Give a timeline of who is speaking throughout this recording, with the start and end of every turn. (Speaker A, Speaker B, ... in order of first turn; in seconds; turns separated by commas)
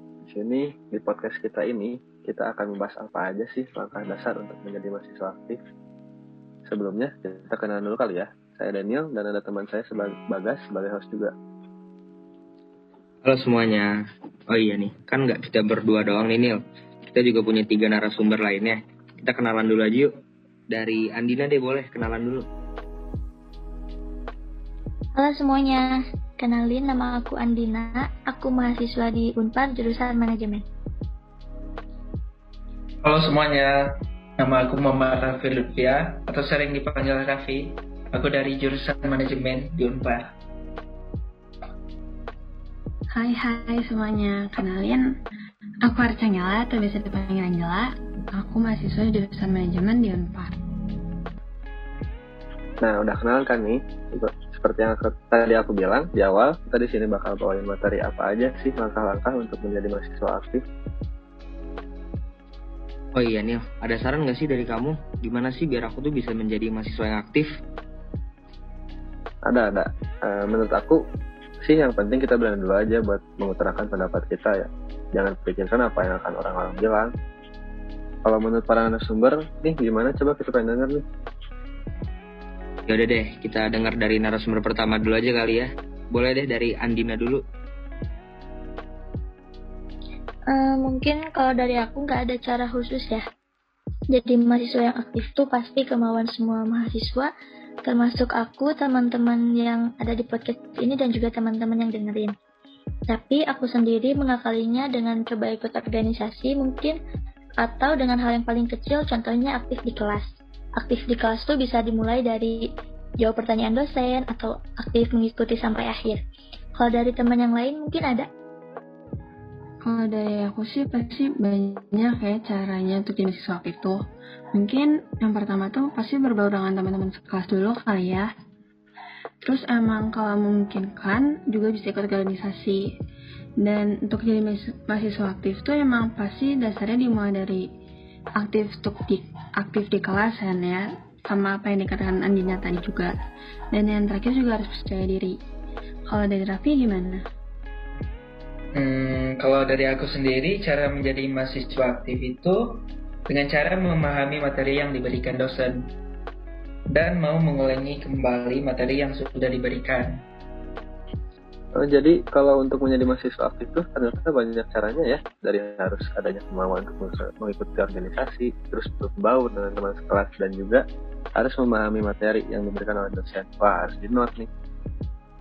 Speaker A: 0.2-5.6, Speaker A: 6.7-11.3, Speaker B: 13.2-13.9, Speaker B: 14.5-16.6, Speaker B: 17.1-20.1, Speaker B: 20.7-22.5, Speaker C: 25.1-30.6, Speaker D: 33.0-40.3, Speaker E: 43.1-45.0, Speaker E: 45.8-50.5, Speaker A: 52.8-60.6, Speaker B: 63.1-67.5, Speaker A: 69.5-71.0, Speaker A: 71.6-77.1, Speaker A: 78.2-81.0, Speaker B: 82.9-87.4, Speaker C: 90.5-93.2, Speaker C: 94.1-97.3, Speaker C: 97.8-102.3, Speaker C: 103.1-107.0, Speaker C: 107.6-110.3, Speaker C: 110.8-112.6, Speaker C: 113.2-116.2, Speaker C: 116.7-118.3, Speaker E: 119.8-124.0, Speaker E: 124.5-128.3, Speaker E: 129.4-132.9, Speaker E: 133.6-137.7, Speaker E: 138.4-143.1, Speaker E: 143.7-145.3, Speaker E: 146.1-147.2, Speaker D: 148.7-155.8, Speaker D: 156.9-160.2, Speaker A: 161.8-170.8, Speaker A: 171.3-174.5